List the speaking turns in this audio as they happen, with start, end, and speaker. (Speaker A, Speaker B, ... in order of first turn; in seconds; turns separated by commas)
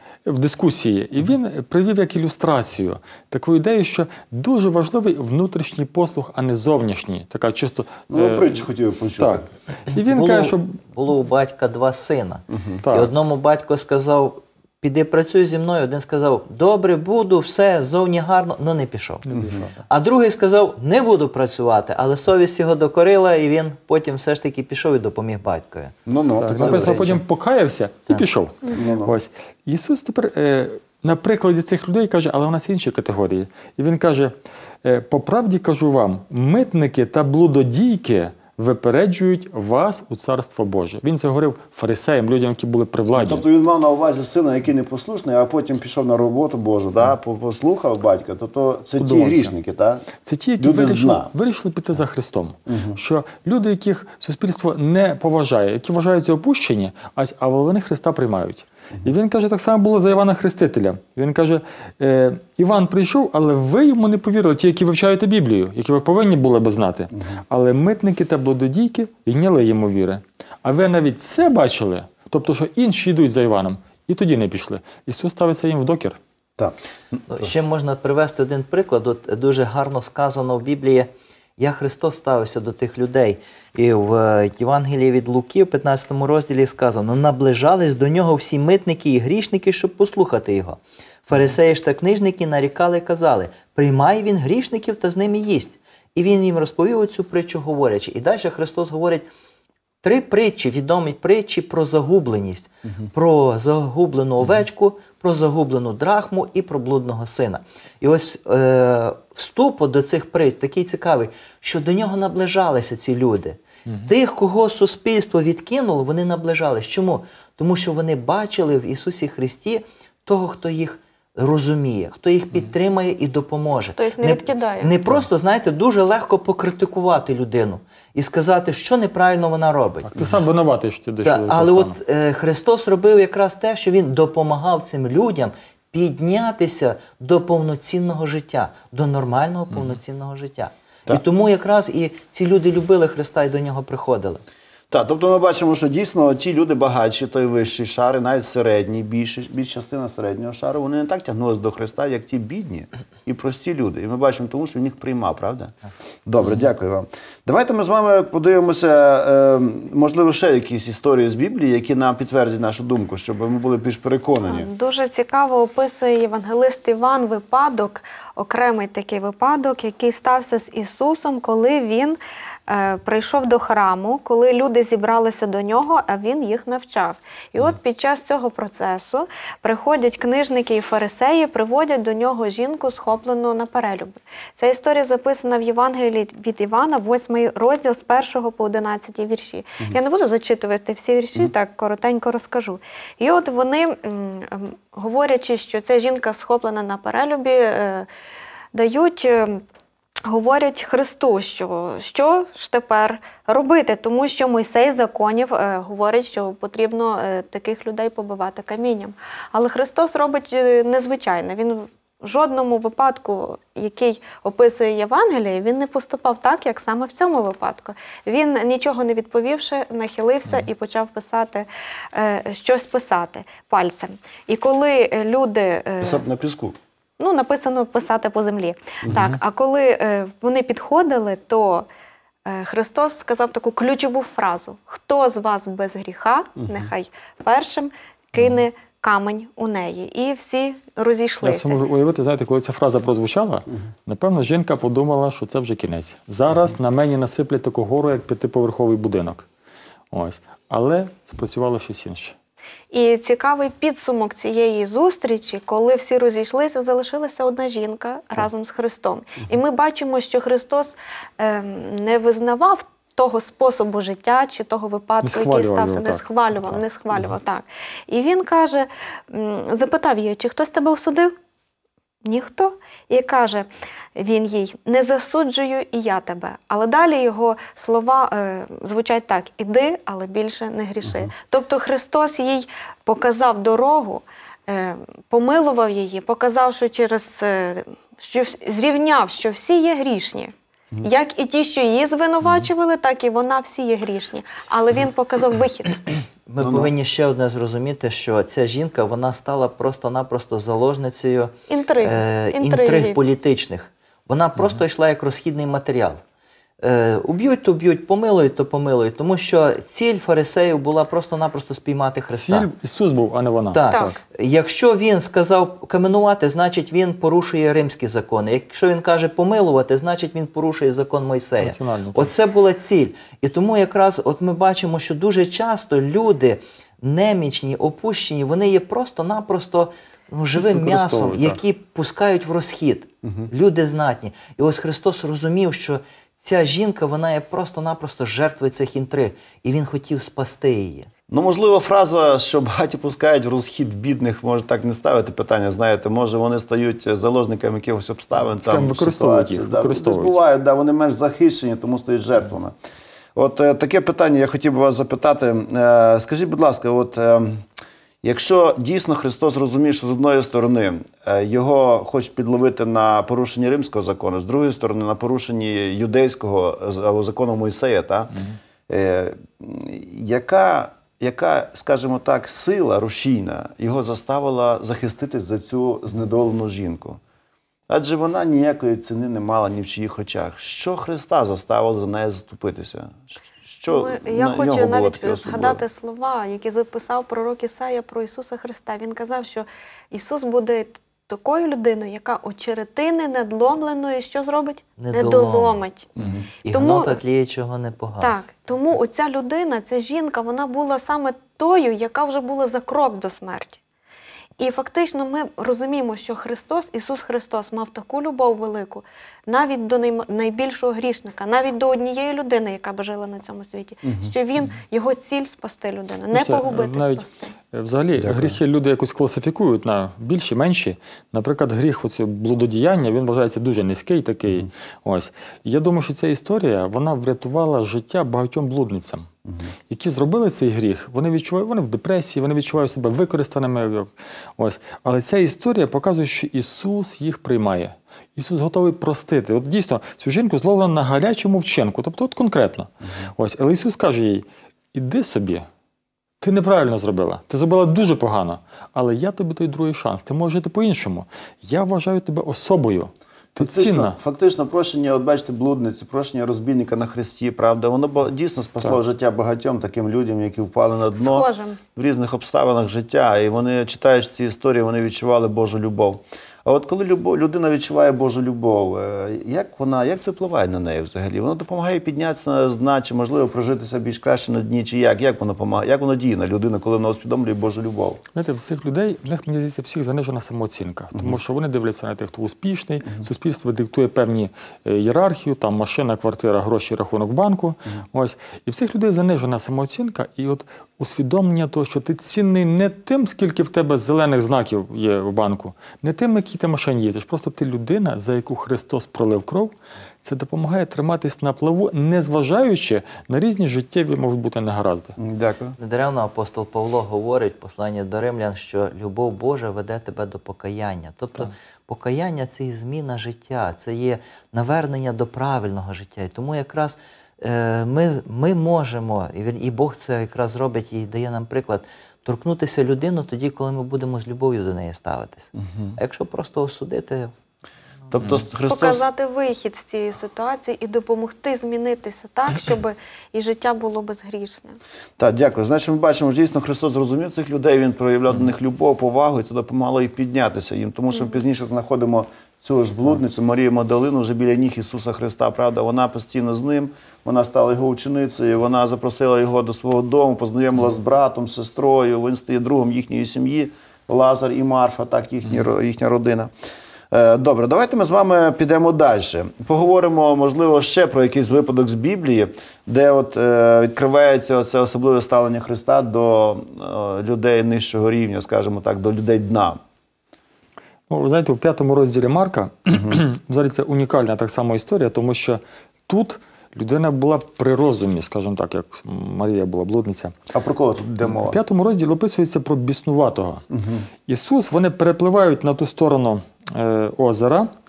Speaker A: 0.2-8.6, Speaker B: 8.1-9.5, Speaker A: 9.2-10.8, Speaker C: 9.9-19.2, Speaker A: 12.8-13.1, Speaker A: 19.2-19.8, Speaker B: 19.3-19.6, Speaker C: 19.9-25.9, Speaker B: 26.1-27.2, Speaker A: 26.4-43.5, Speaker C: 26.6-27.2, Speaker B: 28.7-29.1, Speaker B: 43.1-50.0, Speaker A: 49.0-49.5, Speaker A: 50.2-76.2, Speaker B: 50.6-51.3, Speaker B: 52.7-53.0, Speaker B: 76.6-77.4, Speaker C: 77.3-99.3, Speaker C: 100.0-130.2, Speaker D: 124.0-124.9, Speaker A: 130.1-132.0, Speaker C: 131.2-144.4, Speaker B: 144.9-155.7, Speaker B: 156.3-164.7, Speaker D: 164.5-198.1, Speaker D: 198.7-199.6, Speaker D: 200.3-226.2, Speaker B: 226.0-226.8, Speaker D: 227.2-231.9, Speaker A: 229.1-229.4, Speaker D: 232.5-241.8, Speaker B: 236.6-236.9, Speaker A: 241.4-249.5, Speaker A: 250.1-252.3, Speaker D: 252.9-271.3, Speaker A: 265.2-266.8, Speaker D: 272.2-296.0, Speaker B: 281.1-281.3, Speaker C: 296.5-306.2, Speaker B: 296.6-296.9, Speaker D: 301.7-303.2, Speaker C: 306.8-312.7, Speaker A: 312.3-314.2, Speaker C: 313.7-341.1, Speaker D: 313.9-314.2, Speaker A: 321.6-322.3, Speaker A: 330.6-331.6, Speaker B: 341.3-352.7, Speaker A: 348.6-350.4, Speaker B: 353.4-357.6, Speaker B: 358.2-377.2, Speaker B: 377.9-385.8, Speaker D: 383.9-396.1, Speaker C: 395.0-395.8, Speaker B: 396.2-396.5, Speaker C: 396.6-398.5, Speaker D: 396.7-397.2, Speaker D: 398.2-403.8, Speaker D: 404.6-417.5, Speaker B: 414.0-414.3, Speaker A: 416.3-429.3, Speaker B: 418.1-418.6, Speaker A: 429.9-445.7, Speaker A: 446.4-454.2, Speaker B: 453.6-478.2, Speaker D: 461.2-461.8, Speaker A: 478.4-505.2, Speaker B: 505.2-505.8, Speaker C: 505.8-527.3, Speaker B: 528.1-529.1, Speaker D: 528.7-534.8, Speaker B: 535.2-556.5, Speaker B: 557.1-569.8, Speaker A: 571.1-580.4, Speaker B: 580.5-581.6, Speaker A: 581.2-583.6, Speaker B: 583.7-584.1, Speaker A: 584.3-587.7